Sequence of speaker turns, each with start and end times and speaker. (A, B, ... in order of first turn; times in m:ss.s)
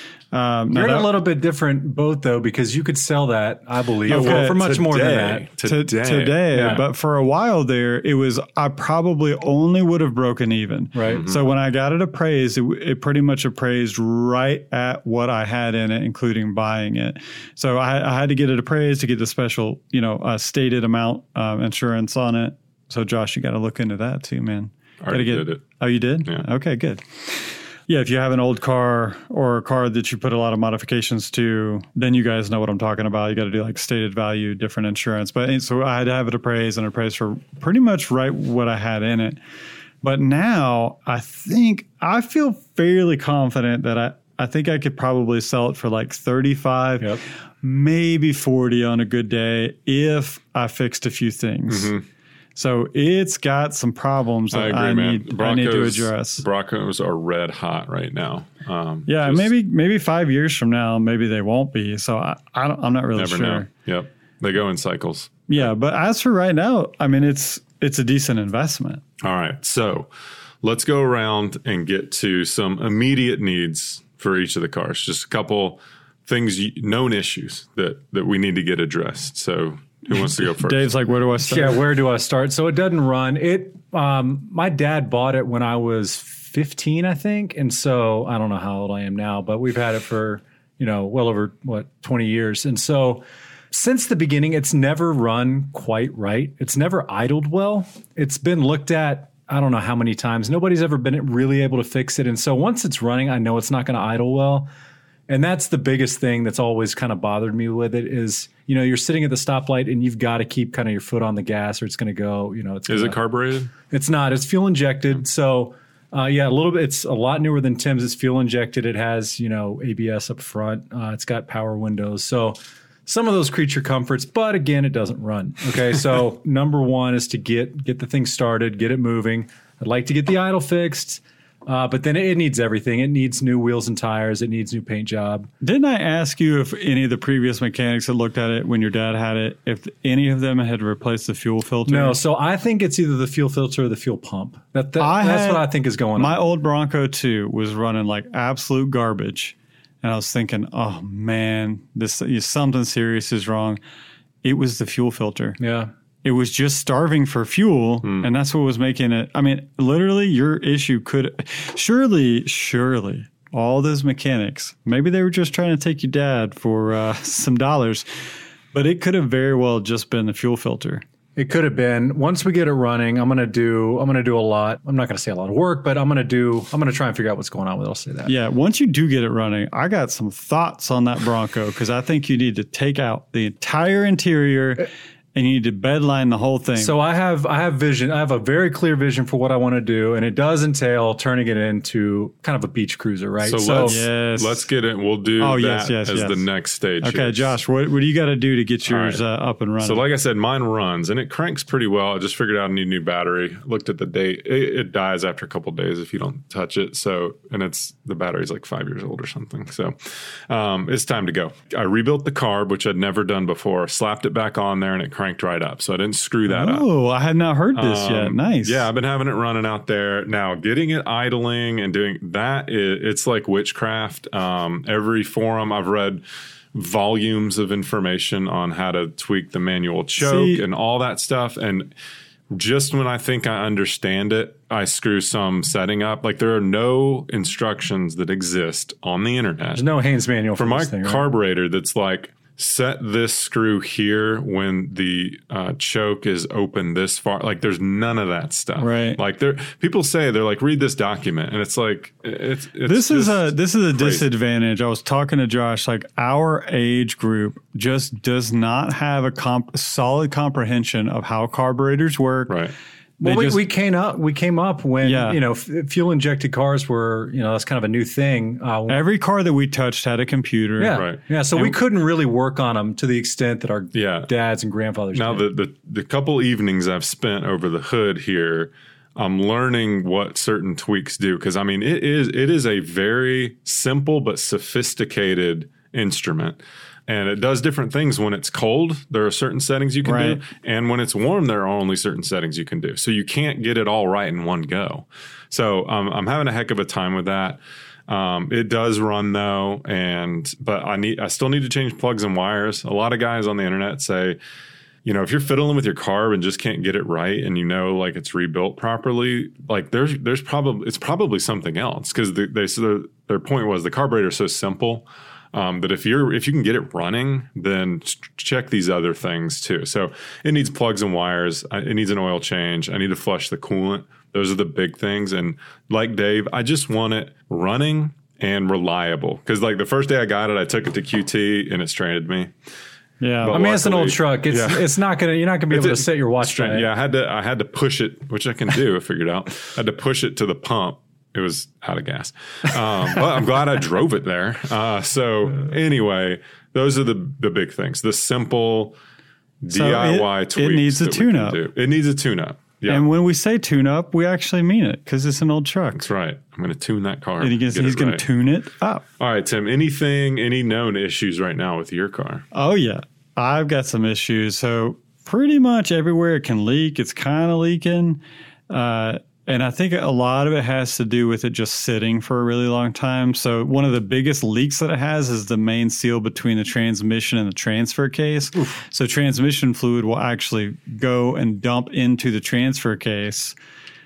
0:00.3-0:01.2 A
0:00.7-0:05.5 B
0:04.0-0:04.7 A
0:04.1-0:06.8 C
0:05.6-0:39.4 A
0:06.5-0:06.8 B
0:10.9-0:11.2 B
0:11.0-0:11.4 C
0:25.0-0:25.6 C
0:40.0-0:51.9 A
0:51.7-0:52.0 C
0:52.5-0:56.4 A
0:54.5-0:59.5 C
0:59.1-1:03.7 A
1:03.1-1:05.6 C
1:05.5-1:09.0 A
1:09.2-1:10.1 C
1:10.6-1:20.9 C
1:20.1-1:21.8 A
1:21.4-1:44.7 B
1:45.3-1:53.2 B
1:52.9-1:53.7 C
1:53.9-2:15.5 B
2:15.6-2:22.2 A
2:21.9-2:26.4 B
2:25.0-2:33.8 A
2:34.4-2:35.6 A
2:35.6-2:35.9 B
2:36.2-2:48.0 A
2:38.0-2:38.3 C
2:48.7-2:51.0 A
2:51.4-2:58.3 B
2:58.2-3:07.0 A
3:06.8-3:14.0 B
3:13.4-3:17.5 C
3:13.7-3:14.7 A
3:15.4-3:16.5 A
3:17.0-3:20.0 A
3:18.8-3:19.2 C
3:19.8-3:30.0 C
3:30.5-3:36.8 C
3:36.5-3:38.9 A
3:37.7-3:46.2 C
3:46.7-3:51.9 C
3:50.2-3:50.6 A
3:52.5-3:59.8 C
3:59.7-4:01.2 B
4:00.6-4:14.3 C
4:08.8-4:09.2 A
4:12.8-4:22.6 A
4:22.5-4:22.7 C
4:23.2-4:23.6 A
4:23.2-4:29.0 B
4:25.0-4:25.4 A
4:28.9-4:31.8 A
4:30.8-4:35.4 B
4:30.9-4:31.2 C
4:33.9-4:34.3 C
4:35.1-5:04.4 C
4:50.0-4:50.4 A
5:05.0-5:32.5 C
5:33.2-5:33.6 A
5:33.4-5:34.9 C
5:33.5-5:36.9 B
5:35.7-5:49.0 C
5:49.6-5:53.0 C
5:49.7-5:51.6 A
5:52.9-5:56.1 A
5:56.0-5:58.2 C
5:57.4-5:59.0 A
5:59.2-6:02.4 C
6:02.5-6:23.6 A